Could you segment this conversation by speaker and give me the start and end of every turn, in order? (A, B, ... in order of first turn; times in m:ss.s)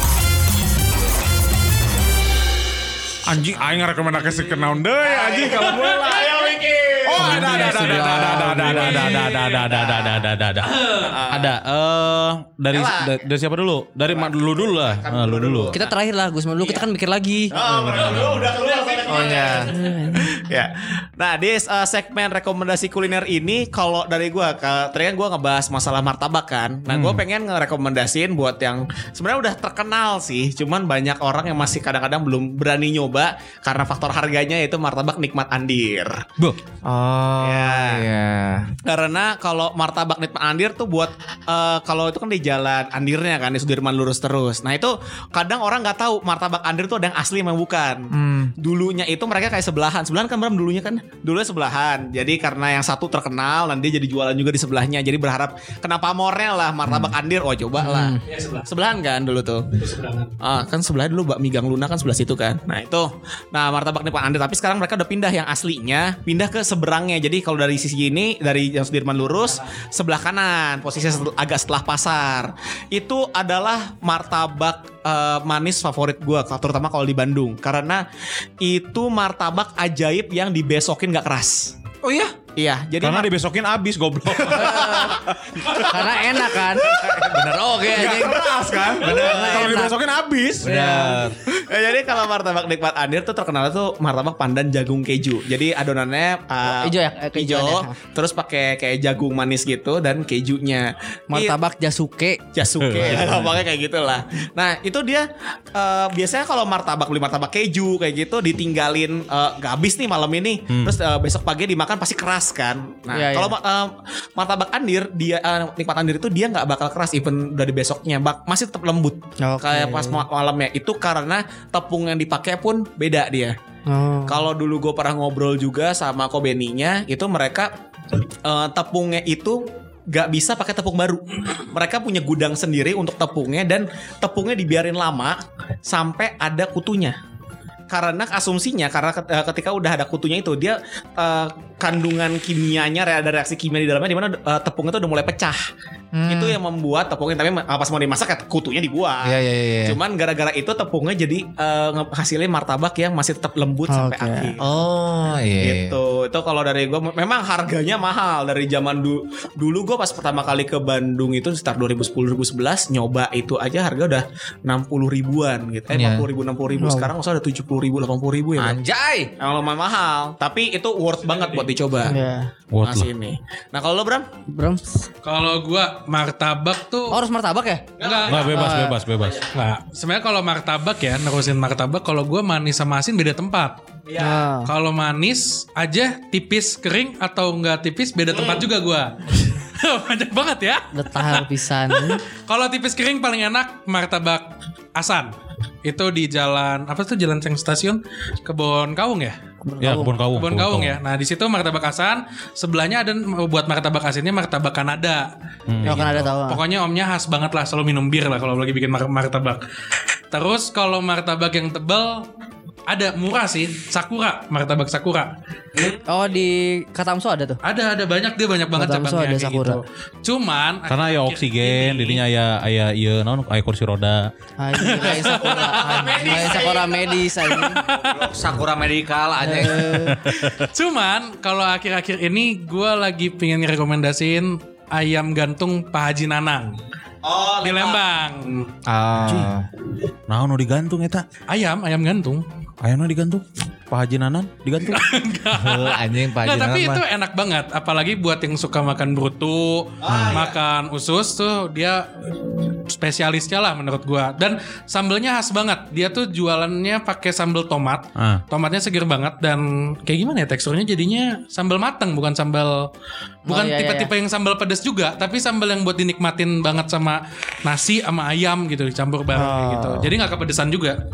0:03.2-0:06.2 A
0:05.0-0:08.0 B
0:07.0-0:15.7 A
0:07.2-0:09.1 C
0:07.4-0:09.8 D
0:08.8-0:10.2 B
0:11.0-0:11.6 B
0:12.7-0:13.2 B
0:14.1-0:15.9 B
0:15.7-0:17.5 C
0:17.5-0:36.3 B
0:17.6-0:18.2 E
0:18.2-0:18.5 A
0:18.6-0:19.6 D
0:19.1-0:19.7 E
0:19.5-0:20.3 C
0:26.9-0:27.2 A
0:36.8-0:38.7 E
0:37.4-0:38.0 B
0:38.8-0:59.7 B
0:48.1-0:48.5 E
0:56.8-0:57.1 E
0:57.8-0:58.2 C
0:58.2-0:58.7 D
0:59.7-1:00.3 D
1:00.4-1:18.0 B
1:18.6-1:21.7 B
1:22.0-1:22.4 E
1:22.6-1:23.3 B
1:23.0-1:25.0 A
1:24.4-1:29.8 B
1:24.7-1:25.0 C
1:24.8-1:25.1 E
1:25.7-1:26.9 C
1:26.9-1:29.8 E
1:27.9-1:31.2 A
1:29.1-1:29.9 C
1:30.6-1:31.4 E
1:31.4-1:41.6 B
1:36.7-1:37.9 C
1:41.3-1:42.4 C
1:42.5-2:03.6 B
1:42.8-1:43.6 A
1:50.7-1:51.0 A
1:53.1-1:53.5 C
1:59.4-2:00.2 C
2:03.9-2:04.4 C
2:04.3-2:07.7 B
2:08.4-2:17.2 B
2:17.9-2:25.6 B
2:26.1-2:26.6 E
2:26.3-2:34.7 B
2:29.2-2:30.0 E
2:33.9-2:34.5 C
2:34.6-2:36.0 E
2:35.6-2:48.8 B
2:45.9-2:46.3 E
2:46.8-2:47.1 C
2:48.6-2:49.3 E
2:49.4-2:52.1 B
2:51.2-2:51.7 D
2:52.0-2:52.5 C
2:52.7-2:53.1 A
2:52.8-2:54.3 B
2:54.5-2:55.0 C
2:55.2-2:57.2 D
2:57.1-2:59.0 C
2:58.0-2:58.8 D
2:58.0-2:58.3 B
2:58.2-2:59.4 A
2:59.4-3:15.3 D
3:04.2-3:04.7 C
3:10.9-3:12.2 C
3:15.8-3:19.4 D
3:19.6-3:20.2 C
3:19.8-3:21.0 A
3:20.3-3:25.3 D
3:25.7-3:26.3 A
3:25.8-3:29.6 D
3:25.8-3:26.6 C
3:30.3-3:32.3 D
3:32.9-3:35.3 D
3:36.0-3:37.6 C
3:37.6-3:42.2 D
3:38.8-3:39.8 C
3:40.9-3:44.3 A
3:44.6-3:47.8 C
3:44.8-3:48.2 D
3:45.2-3:47.0 B
3:48.1-3:50.1 E
3:49.4-3:50.2 C
3:50.0-3:50.7 A
3:50.3-3:56.8 D
3:57.2-3:58.0 B
3:57.6-3:58.7 D
3:58.8-3:59.6 E
3:59.3-3:59.5 A
4:00.3-4:01.2 A
4:01.5-4:02.4 D
4:02.8-4:05.0 A
4:04.9-4:12.1 D
4:05.5-4:07.0 E
4:10.0-4:10.6 B
4:10.1-4:10.4 A
4:12.6-4:22.9 D
4:18.2-4:18.4 A
4:23.4-4:24.1 C
4:23.5-4:31.0 D
4:29.3-4:30.1 C